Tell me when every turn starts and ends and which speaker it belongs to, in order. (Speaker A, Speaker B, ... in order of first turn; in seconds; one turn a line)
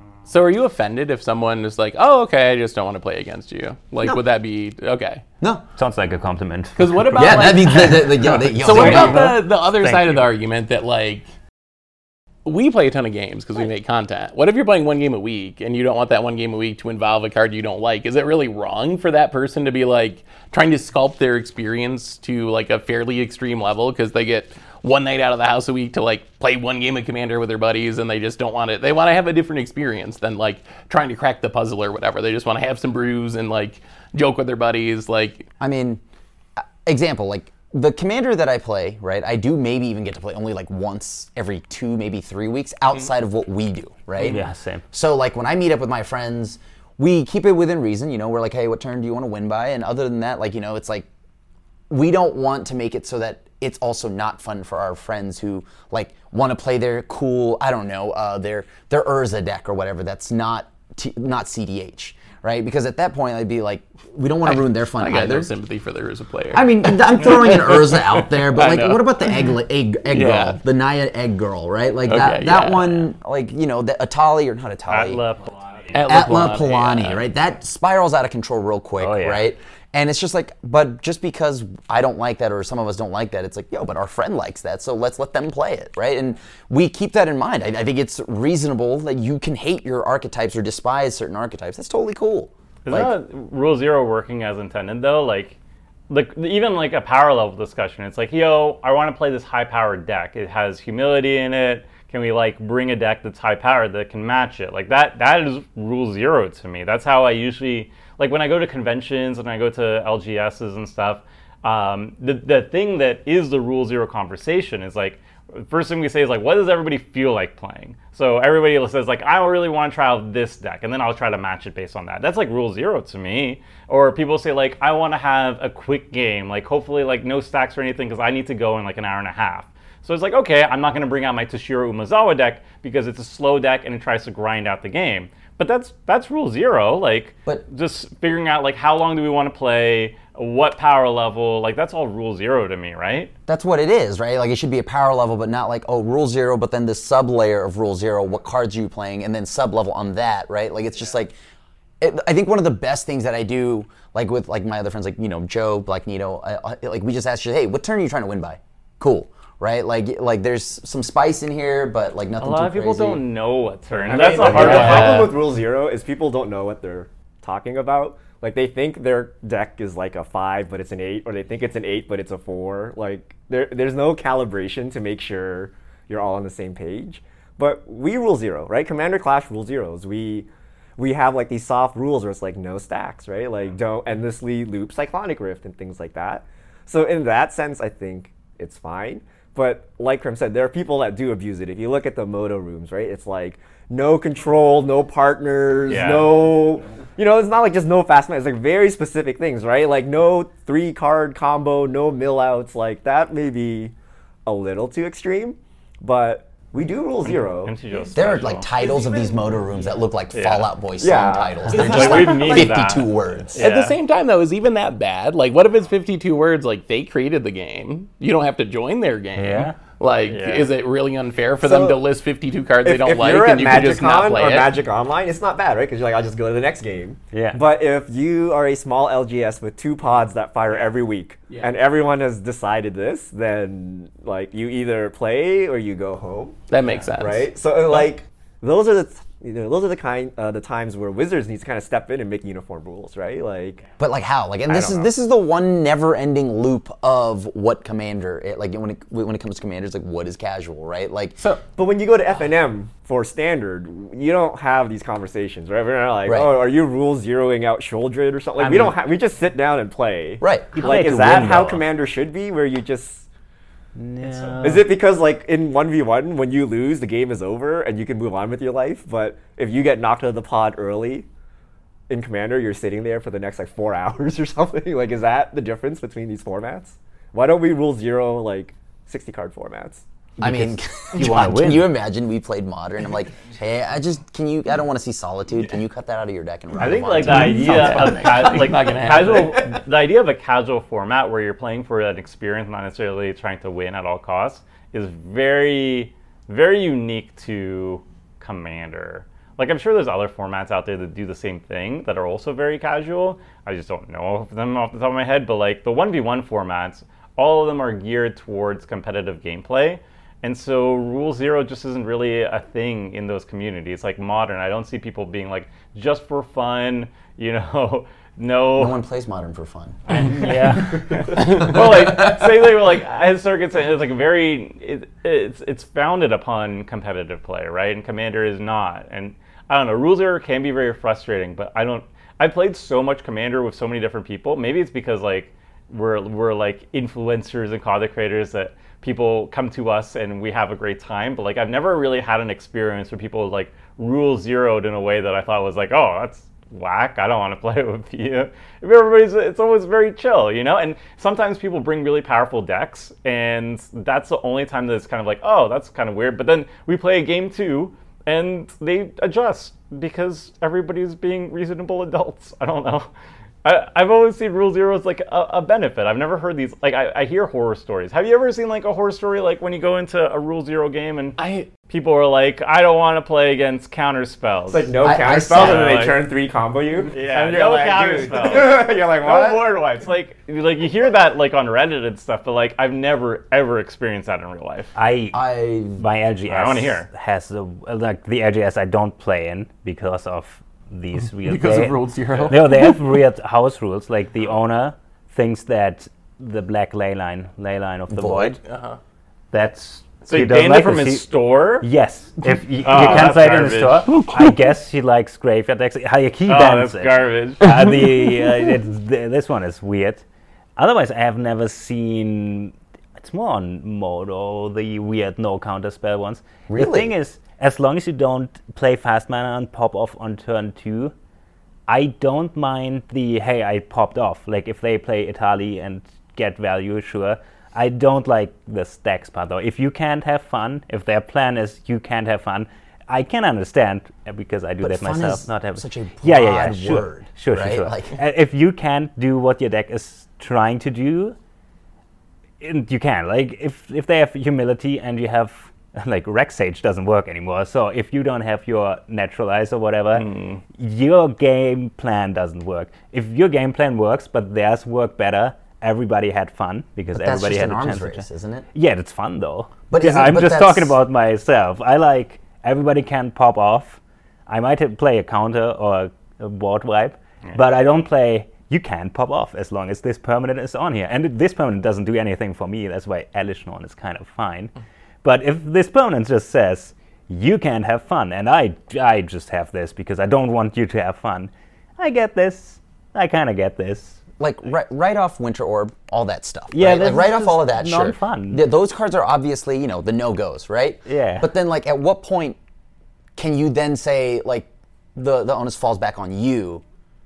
Speaker A: 0.3-5.2
Speaker B: 5.8-7.8
Speaker A: 6.8-11.3
Speaker C: 7.2-9.4
Speaker B: 8.5-10.2
Speaker A: 12.4-35.5
Speaker C: 35.6-36.0
Speaker C: 36.6-51.1
Speaker B: 44.2-44.8
Speaker C: 51.9-65.5
Speaker A: 64.5-69.5
Speaker C: 66.5-75.2
Speaker A: 70.1-70.6
Speaker A: 72.1-73.1
Speaker D: 74.9-76.0
Speaker A: 75.9-77.2
Speaker C: 76.0-93.1
Speaker B: 79.0-79.5
Speaker D: 92.9-95.6
Speaker D: 96.1-143.3
Speaker C: 143.5-151.4
Speaker C: 152.0-163.2
Speaker D: 162.4-165.3
Speaker E: 163.9-203.9
Speaker A: 164.4-165.3
Speaker C: 164.6-164.8
Speaker D: 195.9-196.3
Speaker E: 204.5-207.7
Speaker D: 207.5-208.7
Speaker C: 208.1-213.6
Speaker D: 210.3-210.7
Speaker E: 211.0-212.8
Speaker D: 211.7-214.0
Speaker A: 213.6-224.8
Speaker B: 219.4-219.8
Speaker D: 220.3-220.7
Speaker E: 221.6-222.0
Speaker E: 222.8-243.8
Speaker B: 227.3-227.6
Speaker A: 236.7-238.1
Speaker C: 244.0-251.4
Speaker D: 244.7-245.1
Speaker E: 251.8-263.3
Speaker C: 256.2-256.5
Speaker B: 258.6-258.9
Speaker C: 260.4-260.7
Speaker B: 260.7-261.8
Speaker B: 264.0-264.9
Speaker E: 264.6-271.3
Speaker E: 272.1-280.1
Speaker B: 280.4-281.9
Speaker C: 280.4-288.1
Speaker D: 286.8-319.0
Speaker A: 287.3-289.6
Speaker B: 287.3-288.3
Speaker C: 318.8-320.5
Speaker D: 320.1-363.1
Speaker B: 320.2-321.4
Speaker C: 321.3-322.6
Speaker D: 363.6-371.4
Speaker A: 371.4-371.7
Speaker D: 371.9-374.9
Speaker E: 374.7-379.6
Speaker C: 375.0-375.9
Speaker D: 375.5-376.2
Speaker D: 377.1-384.9
Speaker B: 385.0-385.4
Speaker C: 385.3-386.1
Speaker B: 385.9-398.6
Speaker D: 386.5-387.1
Speaker A: 391.4-393.1
Speaker C: 398.1-398.6
Speaker A: 398.6-399.0
Speaker B: 399.5-401.3
Speaker D: 400.3-401.9
Speaker B: 401.8-410.2
Speaker D: 402.8-404.3
Speaker D: 406.5-407.7
Speaker B: 410.8-421.1
Speaker C: 416.7-417.1
Speaker B: 421.9-441.4
Speaker C: 434.8-438.2
Speaker B: 442.6-484.2
Speaker D: 450.1-450.6
Speaker C: 457.1-458.7
Speaker C: 459.9-461.0
Speaker C: 484.4-492.6
Speaker B: 486.7-488.6
Speaker B: 491.1-491.5
Speaker C: 493.4-496.8